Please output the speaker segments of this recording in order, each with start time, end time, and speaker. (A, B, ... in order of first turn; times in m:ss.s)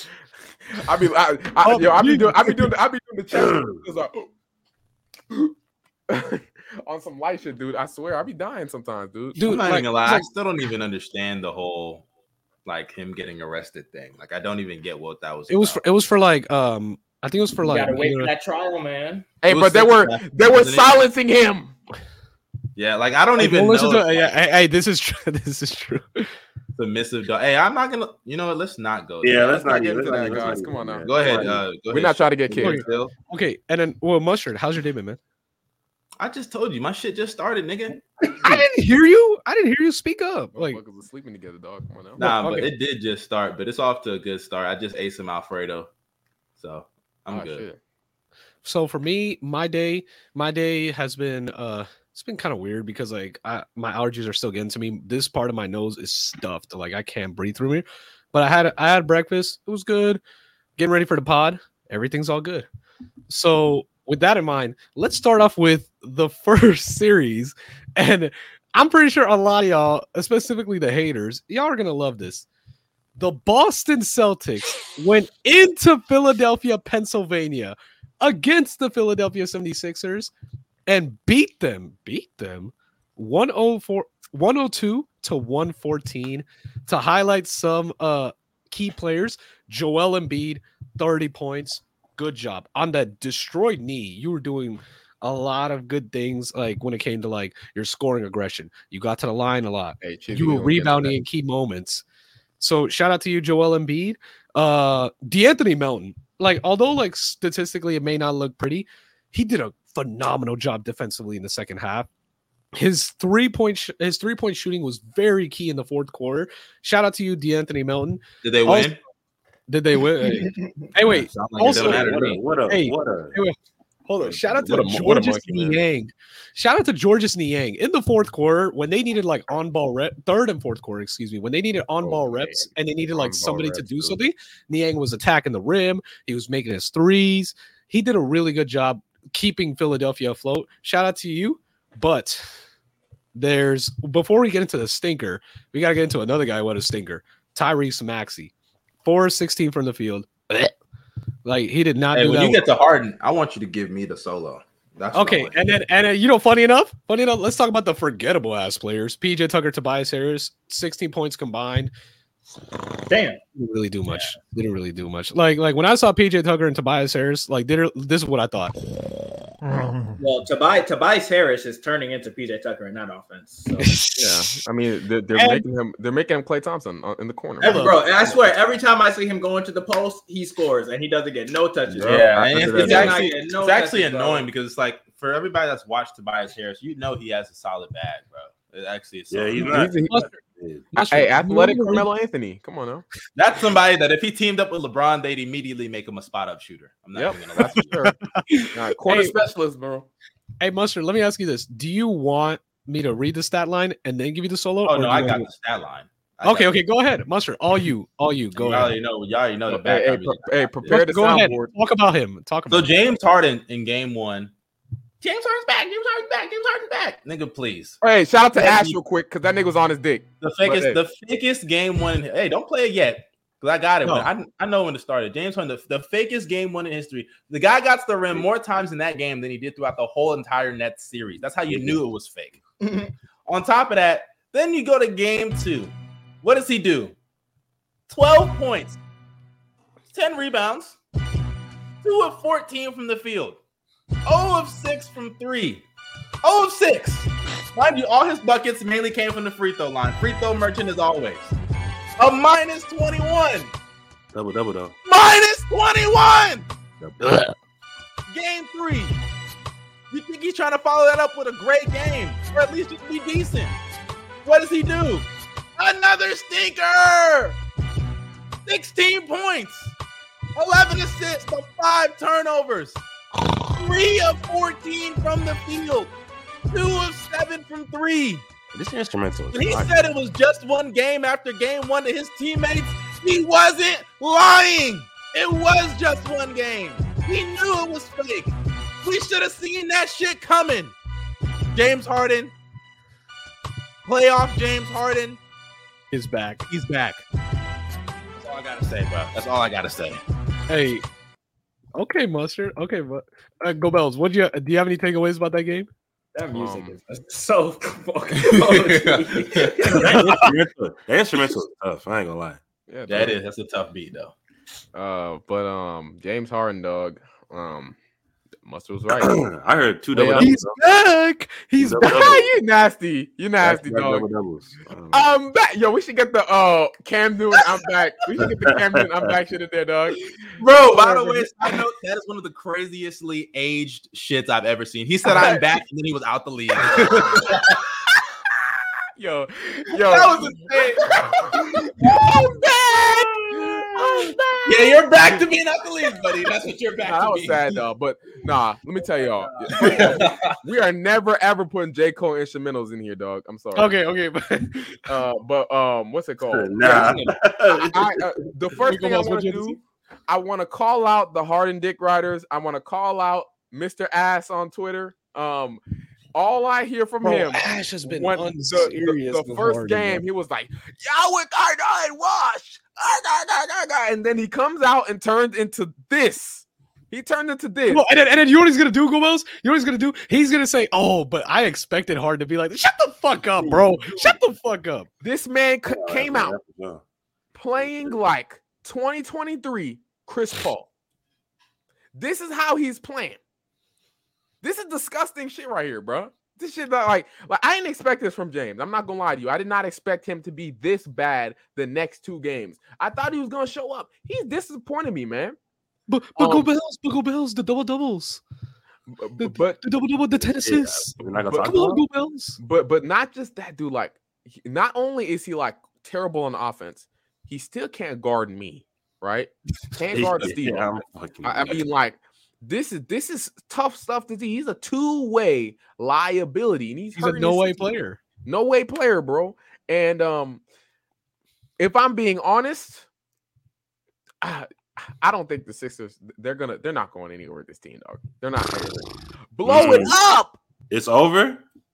0:00.7-0:04.3 A
0:01.6-0:02.7 B
0:03.3-0:03.8 C
0:06.1-0:09.4 A
0:09.4-0:10.3 B
0:09.4-0:12.0 D
0:12.6-0:15.8 D
0:15.5-0:18.3 B
0:17.6-0:19.3 E
0:19.4-0:21.7 A
0:19.5-0:21.0 D
0:22.8-0:24.3 D
0:23.4-0:26.3 B
0:26.8-0:33.1 D
0:29.2-0:31.6 C
0:29.4-0:32.8 A
0:32.6-0:35.2 B
0:36.2-0:38.0 D
0:38.4-0:40.8 B
0:40.5-0:42.2 A
0:42.2-0:42.7 B
0:42.2-0:45.9 D
0:46.6-0:47.6 D
0:47.3-0:47.8 A
0:48.6-1:00.2 B
1:00.8-1:02.7 B
1:03.3-1:12.4 B
1:13.2-1:20.3 B
1:20.9-1:42.0 B
1:40.0-1:41.2 A
1:42.6-1:52.1 B
1:52.7-1:59.0 B
1:58.4-1:59.0 D
1:59.7-2:02.1 B
2:00.3-2:00.6 E
2:01.0-2:02.4 D
2:01.6-2:03.4 C
2:02.7-2:03.5 B
2:04.1-2:22.4 B
2:04.3-2:05.8 A
2:13.1-2:14.2 C
2:23.3-2:28.5 B
2:29.0-2:30.7 B
2:31.4-2:32.6 B
2:32.1-2:35.6 D
2:35.1-2:41.9 B
2:43.1-2:43.4 E
2:43.6-2:48.8 B
2:50.2-2:53.9 E
2:53.8-2:54.6 B
2:54.1-2:57.9 A
2:55.3-2:55.6 B
2:57.6-3:04.5 E
2:57.6-2:58.0 B
3:01.9-3:03.2 A
3:02.0-3:09.8 D
3:09.3-3:10.9 C
3:09.6-3:10.2 A
3:10.9-3:12.1 B
3:10.9-3:13.0 A
3:13.4-3:18.0 D
3:17.1-3:18.2 A
3:18.0-3:19.3 B
3:18.7-3:20.1 A
3:20.6-3:25.5 B
3:24.8-3:26.7 D
3:26.4-3:28.9 B
3:28.5-3:31.0 D
3:29.7-3:31.7 A
3:30.9-3:32.9 B
3:32.7-3:34.5 D
3:35.2-3:38.0 D
3:38.0-3:41.0 A
3:38.5-3:39.0 D
3:40.4-3:52.6 D
3:51.7-3:52.0 C
3:52.8-3:53.1 E
3:53.5-3:57.2 D
3:58.1-3:59.0 D
4:00.1-4:01.0 D
4:02.0-4:03.6 D
4:04.2-4:05.8 D
4:06.4-4:11.5 D
4:12.2-4:13.7 D
4:14.3-4:15.0 C
4:15.0-4:16.7 D
4:17.0-4:17.5 C
4:18.3-4:19.2 D
4:20.1-4:23.8 D
4:24.4-4:27.6 D
4:28.6-4:29.9 D
4:30.5-4:33.0 D
4:33.5-4:36.1 D
4:36.7-4:38.4 D
4:38.7-4:39.9 C
4:39.5-4:50.9 D
4:51.7-4:52.5 D
4:54.0-4:55.4 D
4:56.1-4:56.6 B
4:56.7-4:57.2 D
4:58.3-5:00.2 D
5:00.7-5:01.0 B
5:02.0-5:05.9 B
5:06.3-5:10.1 E
5:06.5-5:07.0 A
5:08.4-5:09.9 D
5:09.9-5:12.6 C
5:10.1-5:10.5 B
5:12.9-5:13.4 A
5:13.1-5:14.3 D
5:14.9-5:18.0 A
5:18.6-5:19.4 A
5:19.2-5:20.8 C
5:20.1-5:20.5 A
5:20.4-5:22.4 B
5:21.8-5:22.5 C
5:22.0-5:24.3 A
5:23.6-5:25.3 C
5:25.1-5:30.2 A
5:28.4-5:29.3 C
5:30.6-5:37.8 D
5:30.8-5:31.5 A
5:35.3-5:35.6 A
5:39.2-5:40.6 A
5:40.0-5:43.8 D
5:42.0-5:45.4 A
5:44.6-5:47.8 D
5:47.0-5:53.9 A
5:49.6-5:50.3 E
5:49.8-5:50.5 D
5:53.7-5:55.2 B
5:55.0-6:05.8 A
5:56.4-5:58.3 C
5:56.8-5:57.3 E
5:58.8-5:59.8 B
6:06.3-6:18.0 A
6:07.2-6:10.2 B
6:17.9-6:25.1 B
6:25.2-6:26.6 A
6:25.9-6:27.0 C
6:27.5-6:30.9 A
6:27.8-6:28.2 C
6:32.1-6:33.4 A
6:34.6-6:45.6 A
6:46.1-6:48.4 B
6:46.4-6:46.7 A
6:49.1-6:49.8 A
6:49.4-6:52.6 B
6:50.4-6:52.0 C
6:51.4-6:52.0 A
6:52.6-7:07.9 A
7:00.1-7:01.8 C
7:07.2-7:08.2 B
7:08.4-7:10.6 A
7:11.8-7:13.0 A
7:14.4-7:20.6 A
7:19.6-7:20.1 C
7:20.9-7:21.6 C